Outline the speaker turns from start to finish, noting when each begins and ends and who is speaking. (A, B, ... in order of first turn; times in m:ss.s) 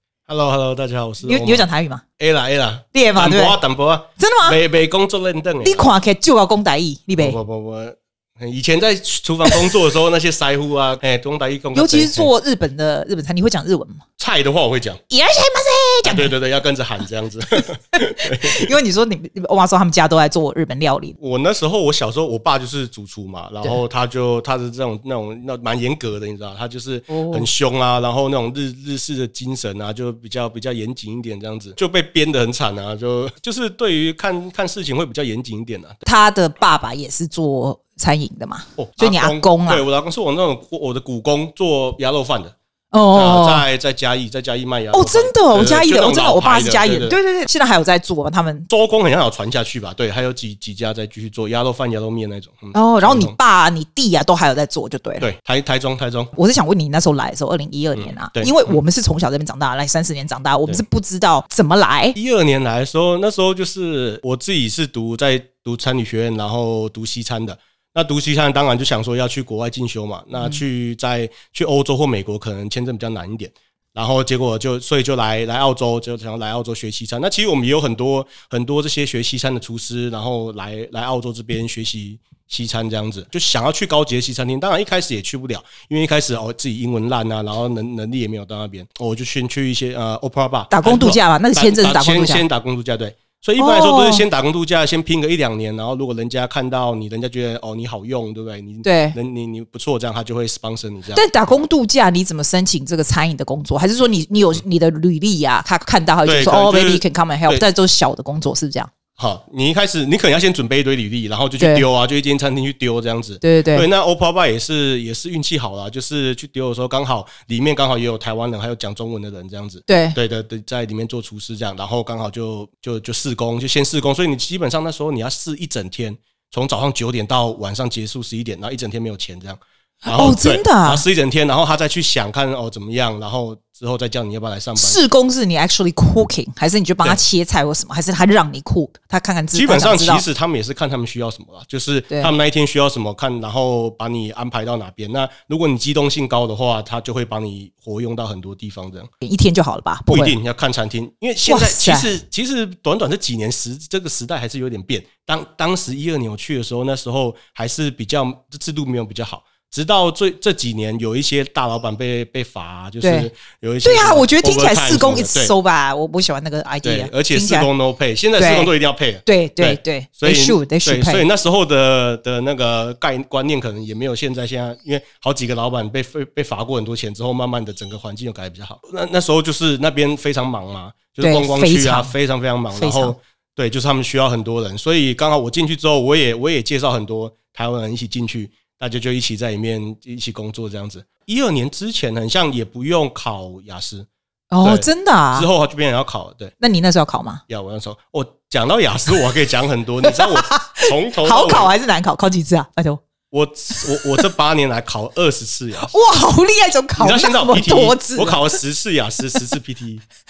0:00.3-0:01.7 A
0:01.2-0:02.0 B
0:02.2-0:05.9 A
0:02.9-0:03.6 B
0:04.2-0:04.6 B
0:05.6-0:07.4 B
0:07.2-0:12.3 A
0:11.7-0:14.0 B
0:14.2-0:15.0 A
0:15.1-0:16.3 B
0:16.0-0:18.7 A
0:17.9-0:21.2 B
0:21.2-0:36.0 A
0:27.1-0:27.5 B
0:36.0-0:39.8 B
0:38.8-0:42.6 A
0:42.9-0:43.7 B
0:43.1-0:47.2 A
0:44.9-0:48.7 B
0:48.7-0:53.3 A
0:52.7-0:55.3 B
0:55.2-0:56.3 A
0:56.3-1:02.2 B
0:58.0-0:58.8 A
1:02.2-1:41.2 A
1:30.7-1:32.4 B
1:33.6-1:34.2 B
1:38.8-1:39.2 B
1:41.1-1:48.9 B
1:46.2-1:47.6 A
1:49.2-2:15.0 A
1:51.6-1:51.9 B
1:53.4-1:53.9 B
1:59.9-2:00.2 B
2:10.0-2:11.0 B
2:14.8-2:20.2 B
2:19.5-2:29.1 A
2:29.2-2:30.4 B
2:30.1-2:45.5 A
2:31.4-2:32.1 B
2:43.0-2:43.3 B
2:43.8-2:47.7 B
2:46.8-3:14.1 A
2:48.4-2:48.7 B
2:49.2-2:51.2 B
3:01.2-3:02.1 B
3:02.8-3:03.2 B
3:14.5-3:15.5 B
3:14.6-3:16.5 A
3:16.6-3:17.4 B
3:17.5-3:21.7 A
3:20.0-3:23.0 B
3:23.3-3:25.9 A
3:23.8-3:24.2 B
3:25.8-3:28.6 B
3:27.0-3:30.0 A